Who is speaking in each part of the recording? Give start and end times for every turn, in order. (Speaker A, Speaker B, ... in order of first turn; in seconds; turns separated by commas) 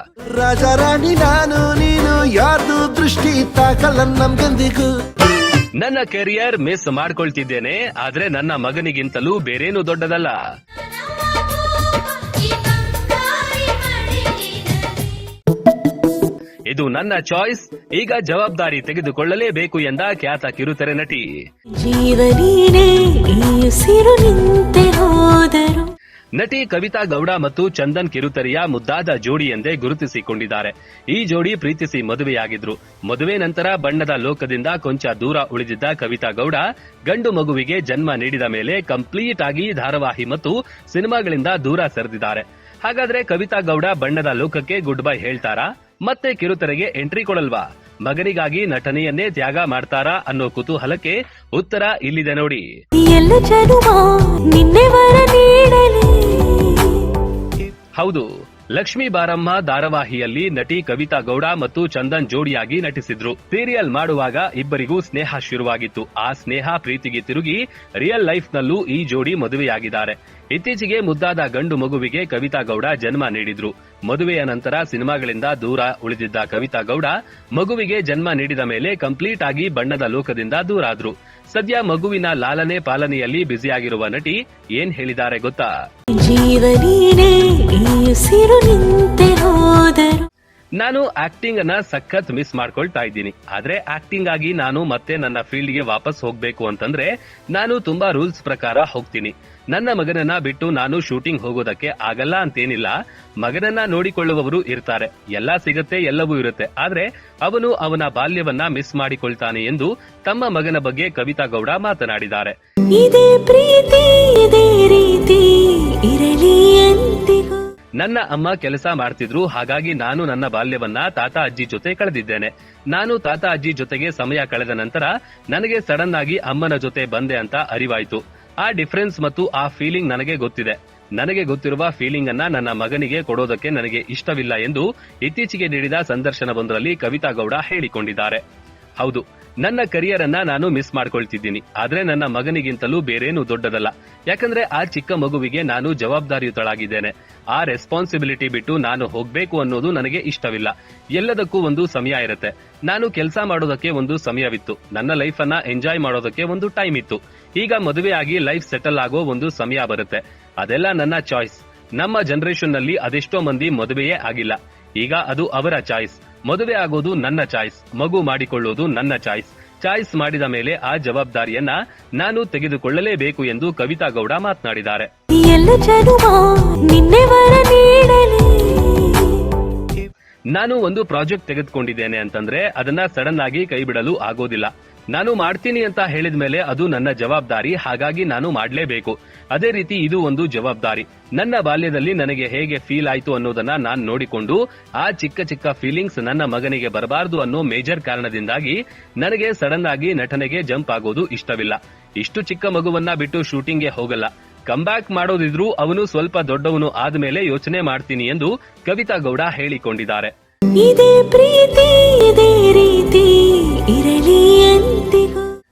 Speaker A: 0.3-4.9, Speaker B: 5.8-10.4, Speaker C: 11.0-15.1, Speaker B: 16.7-21.3, Speaker C: 21.8-25.9, Speaker B: 26.4-52.7, Speaker C: 53.0-57.2, Speaker B: 58.0-85.7, Speaker C: 86.2-90.3, Speaker B: 90.8-112.5, Speaker C: 112.9-117.6, Speaker B: 118.0-138.4, Speaker B: 139.0-175.1, Speaker C: 175.4-179.6, Speaker B: 180.5-210.3, Speaker C: 210.8-215.5